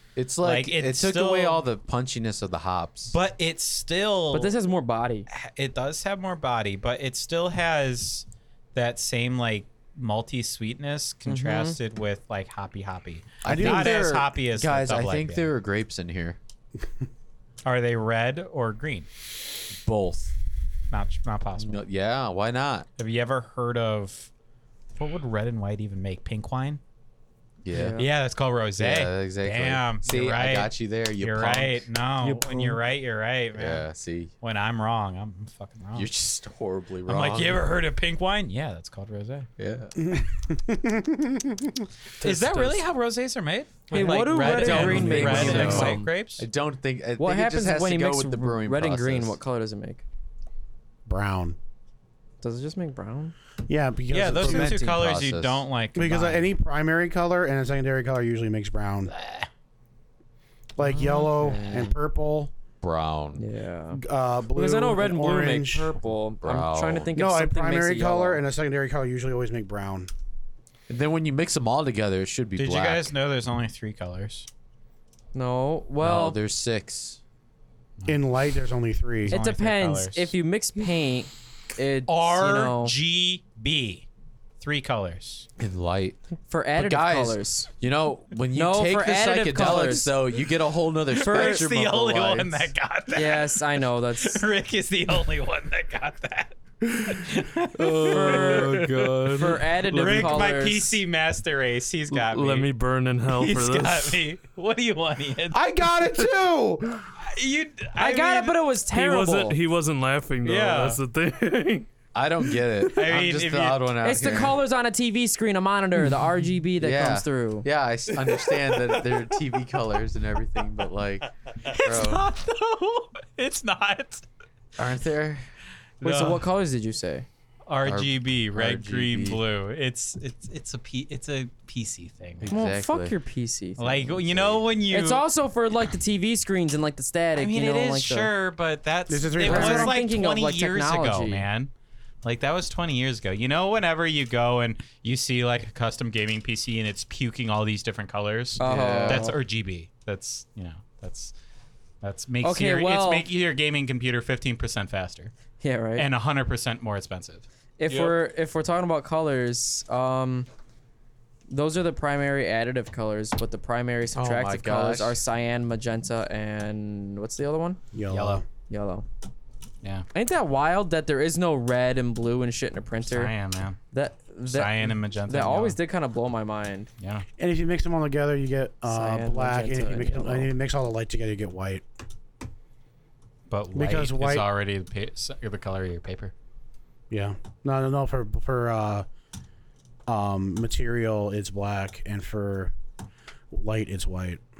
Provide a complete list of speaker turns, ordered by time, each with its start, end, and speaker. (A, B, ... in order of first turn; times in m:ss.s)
0:00.2-0:03.1 A
0:00.4-0:01.6 B
0:03.1-0:04.5 B
0:04.3-0:05.3 C
0:05.3-0:15.5 B
0:11.2-0:11.8 C
0:13.4-0:16.4 A
0:13.4-0:14.0 D
0:17.6-0:19.1 B
0:19.8-0:20.3 A
0:20.9-0:21.8 B
0:21.6-0:22.9 A
0:23.0-0:24.3 B
0:25.0-0:26.8 B
0:27.6-0:28.0 A
0:27.7-0:28.1 C
0:28.0-0:33.9 B
0:28.8-0:31.8 A
0:32.2-0:32.8 C
0:33.5-0:34.3 A
0:34.4-0:36.1 B
0:35.9-0:37.7 A
0:37.0-0:39.5 B
0:39.6-0:39.9 A
0:40.0-0:41.9 D
0:42.2-0:42.8 E
0:42.2-0:46.4 B
0:43.9-0:46.1 C
0:43.9-0:49.4 A
0:47.2-0:50.0 C
0:51.0-0:51.6 D
0:52.4-0:53.3 C
0:53.7-0:54.8 D
0:54.1-0:56.5 B
0:54.3-0:55.6 A
0:55.9-0:59.1 D
0:59.1-0:59.5 B
1:00.8-1:02.5 D
1:00.8-1:01.9 C
1:02.8-1:03.4 A
1:03.4-1:04.0 C
1:03.9-1:05.9 D
1:04.5-1:08.4 C
1:06.4-1:07.1 A
1:07.1-1:10.1 D
1:10.9-1:13.1 A
1:12.5-1:14.5 B
1:15.3-1:16.4 C
1:16.0-1:17.2 A
1:18.0-1:19.4 D
1:19.3-1:20.3 B
1:19.3-1:22.9 C
1:22.1-1:24.1 B
1:24.6-1:25.5 B
1:25.6-1:26.2 A
1:26.5-1:27.7 C
1:26.7-1:32.7 A
1:28.5-1:30.2 C
1:31.1-1:39.1 B
1:31.2-1:31.7 C
1:33.1-1:34.4 C
1:37.7-1:40.4 E
1:38.0-1:41.0 C
1:39.8-1:42.7 B
1:42.1-1:44.2 E
1:43.3-1:45.6 B
1:45.5-1:47.1 D
1:47.2-1:48.6 B
1:48.0-1:49.6 C
1:48.9-1:51.9 E
1:50.4-1:51.0 B
1:52.1-1:54.6 A
1:52.9-1:54.0 B
1:54.0-1:57.7 C
1:56.8-2:02.2 A
1:58.5-1:58.8 B
2:01.6-2:04.2 B
2:04.8-2:05.4 A
2:06.0-2:06.4 B
2:06.0-2:07.2 C
2:07.7-2:12.5 B
2:07.8-2:09.4 A
2:12.4-2:13.2 A
2:12.5-2:14.1 C
2:13.8-2:15.2 B
2:14.2-2:14.6 A
2:14.9-2:18.3 C
2:17.4-2:21.7 B
2:19.1-2:20.0 D
2:19.4-2:21.5 C
2:22.2-2:31.3 B
2:28.6-2:29.4 C
2:28.6-2:29.3 A
2:32.0-2:35.3 B
2:32.4-2:33.3 C
2:35.6-2:36.1 C
2:36.0-2:37.5 B
2:37.8-2:40.5 C
2:41.5-2:47.8 C
2:44.1-2:45.2 A
2:47.9-2:48.5 D
2:48.1-2:48.4 B
2:48.6-2:49.0 C
2:50.1-2:53.3 C
2:53.1-2:53.8 B
2:53.9-2:56.9 C
2:54.4-2:55.8 B
2:57.0-2:57.2 B
2:57.4-3:01.8 D
2:58.9-3:00.5 C
3:03.5-3:06.3 B
3:03.7-3:04.5 D
3:07.1-3:09.0 D
3:10.1-3:12.7 D
3:13.5-3:14.4 D